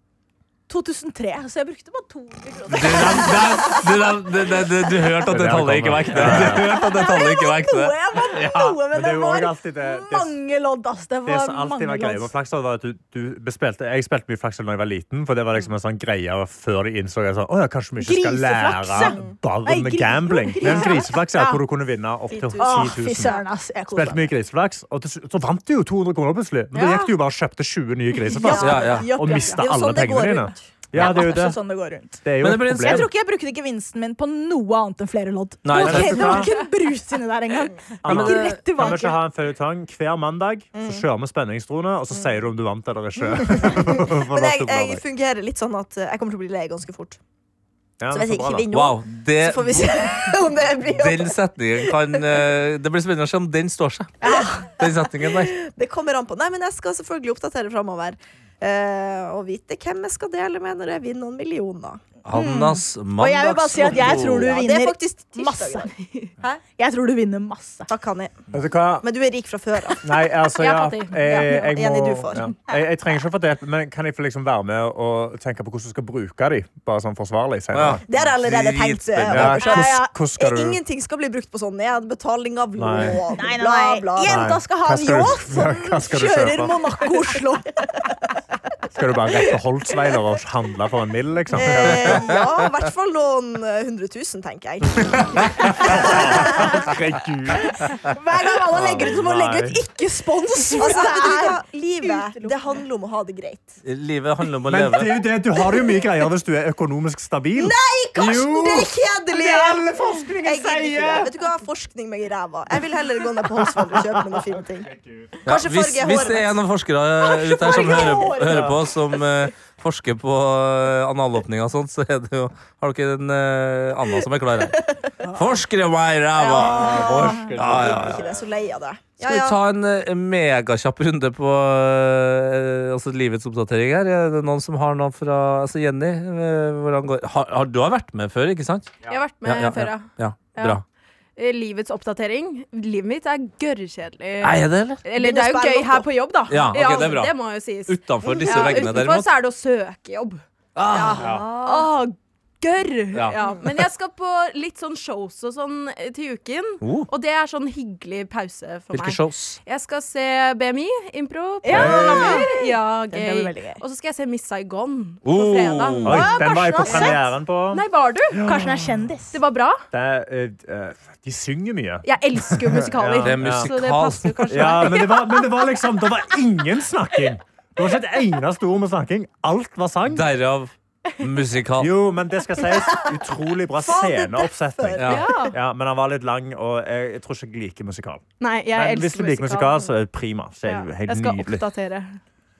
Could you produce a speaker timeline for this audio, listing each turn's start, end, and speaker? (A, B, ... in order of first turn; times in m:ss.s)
0:00.7-0:03.7 A
0:02.7-0:08.8 B
0:05.2-0:06.7 C
0:06.2-0:12.3 A
0:08.9-0:10.4 C
0:11.2-0:31.6 C
0:18.0-0:21.6 A
0:20.6-0:21.2 D
0:22.3-0:23.4 D
0:22.6-0:24.3 A
0:26.8-0:27.1 A
0:28.4-0:29.6 A
0:28.4-0:30.6 D
0:28.6-0:29.1 B
0:30.9-0:32.2 A
0:32.2-0:33.1 C
0:32.4-0:33.1 B
0:32.8-0:39.2 A
0:35.6-0:36.4 B
0:35.7-0:36.5 C
0:38.0-0:45.0 C
0:38.0-0:38.5 B
0:40.7-0:41.0 D
0:43.4-0:47.2 D
0:48.0-0:48.7 C
0:48.1-0:52.4 D
0:48.7-0:50.1 B
0:50.9-0:54.2 B
0:54.2-0:54.6 A
0:54.2-1:02.0 D
0:54.8-0:55.6 B
1:02.2-1:04.5 B
1:02.3-1:05.9 A
1:03.8-1:06.6 D
1:05.9-1:06.3 E
1:06.8-1:07.9 A
1:07.9-1:08.4 D
1:08.5-1:09.0 C
1:09.0-1:10.0 D
1:10.0-1:18.0 C
1:10.5-1:11.8 E
1:11.5-1:12.5 D
1:17.7-1:19.6 B
1:18.1-1:24.6 D
1:19.3-1:20.8 C
1:19.5-1:20.1 A
1:22.8-1:23.2 C
1:23.4-1:27.7 A
1:24.2-1:26.7 C
1:28.9-1:32.3 C
1:31.5-1:37.0 D
1:35.6-1:37.8 C
1:38.1-1:42.6 A
1:38.7-1:39.8 C
1:40.8-1:43.7 D
1:43.8-1:45.2 B
1:44.7-1:51.4 C
1:47.6-1:49.8 D
1:50.4-1:54.9 D
1:53.4-1:55.2 C
1:55.4-1:56.6 D
1:55.4-2:04.8 B
1:57.2-1:59.2 D
1:58.5-1:58.7 C
2:04.7-2:05.1 D
2:05.3-2:08.2 B
2:06.3-2:09.6 D
2:06.6-2:08.3 C
2:09.2-2:20.8 B
2:19.0-2:20.8 E
2:21.4-2:30.4 E
2:24.4-2:25.0 B
2:25.2-2:26.1 D
2:26.5-2:29.3 B
2:28.2-2:29.0 D
2:30.7-2:31.4 B
2:30.9-2:31.9 D
2:30.9-2:47.1 E
2:33.1-2:33.6 B
2:36.8-2:37.1 B
2:38.9-2:39.6 B
2:41.6-2:43.8 A
2:41.7-2:42.4 C
2:45.2-2:46.2 B
2:46.0-2:47.8 C
2:46.1-2:47.2 A
2:47.7-2:48.5 E
2:48.4-2:48.9 C
2:48.4-2:49.4 A
2:49.3-2:49.8 E
2:49.9-2:53.7 C
2:52.0-2:55.2 E
2:53.2-2:54.8 B
2:54.5-3:00.3 C
3:00.1-3:01.9 B
3:01.8-3:11.6 C
3:02.7-3:05.4 D
3:05.0-3:05.3 B
3:05.1-3:05.5 E
3:08.4-3:09.9 E
3:10.6-3:12.2 E